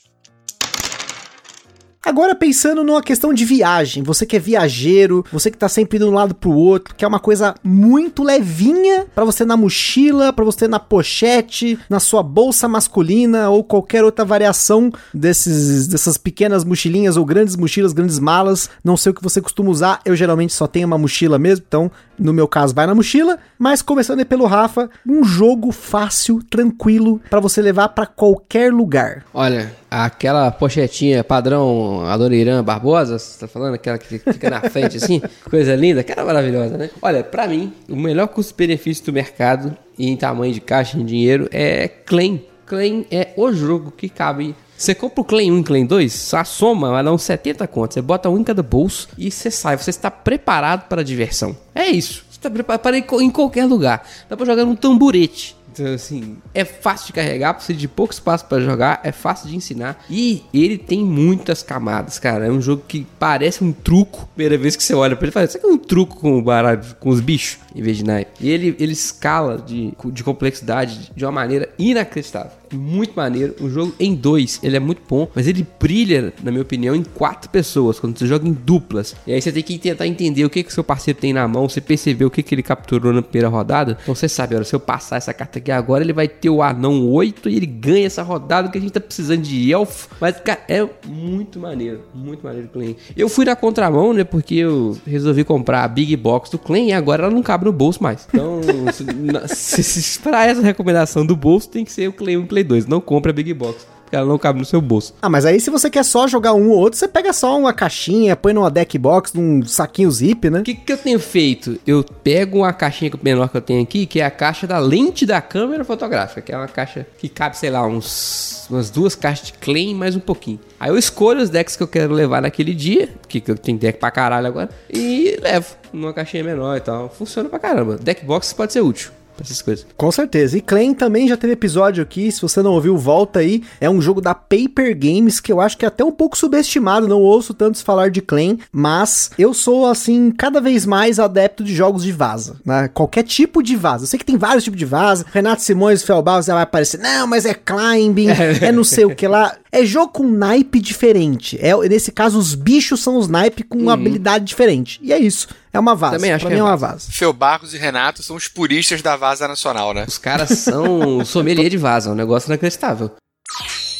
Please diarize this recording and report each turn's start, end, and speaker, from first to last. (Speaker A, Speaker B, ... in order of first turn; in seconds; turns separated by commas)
Speaker A: 2.0-29.2, Speaker B: 29.3-105.1, Speaker A: 105.2-110.7, Speaker B: 110.7-129.8, Speaker A: 130.0-157.1, Speaker B: 148.3-149.1, Speaker B: 153.8-154.2, Speaker B: 156.1-156.8, Speaker C: 157.1-160.1, Speaker B: 160.1-163.1